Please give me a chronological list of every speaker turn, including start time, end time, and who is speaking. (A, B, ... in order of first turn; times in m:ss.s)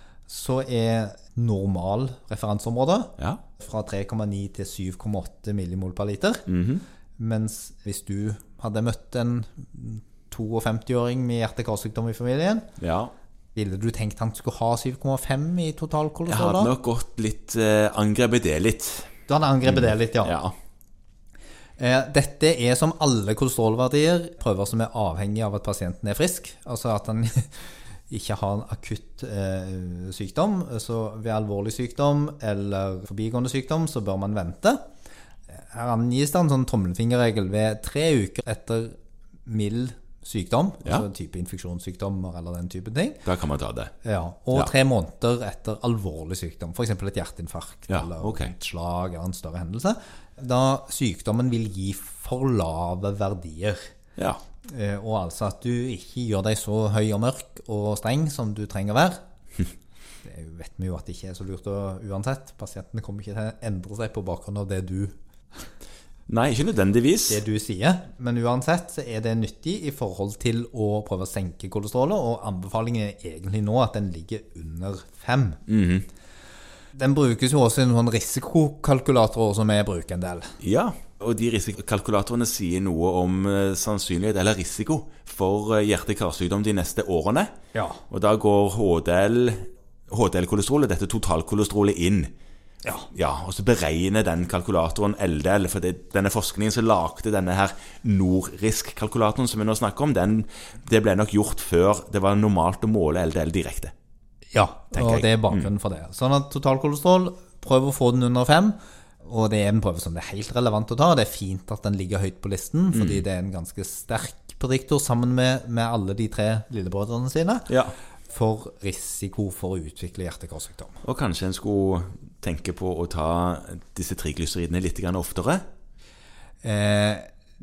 0:00.3-0:06.4 A
0:06.5-0:06.8 B
0:07.2-0:12.7 A
0:12.8-0:13.1 B
0:13.6-0:16.7 A
0:16.3-0:19.1 B
0:19.3-0:20.4 A
0:19.6-0:20.5 B
0:21.8-0:27.5 A
0:28.1-0:34.8 A
0:35.5-0:39.0 A
0:39.5-0:43.2 A
0:43.2-0:43.9 B
0:44.0-0:53.9 A
0:47.9-0:48.5 B
0:54.7-0:59.2 A
1:00.2-1:05.1 A
1:06.3-1:07.4 B
1:07.3-1:15.6 A
1:15.7-1:16.1 B
1:17.0-1:20.6 A
1:20.6-1:27.5 B
1:27.7-1:28.0 A
1:28.1-1:32.3 B
1:33.1-1:43.9 B
1:44.5-1:57.7 A
1:44.9-1:45.7 B
1:52.9-1:53.2 B
1:57.7-1:58.0 B
1:58.3-2:01.0 A
2:01.0-2:05.6 B
2:06.6-2:07.3 A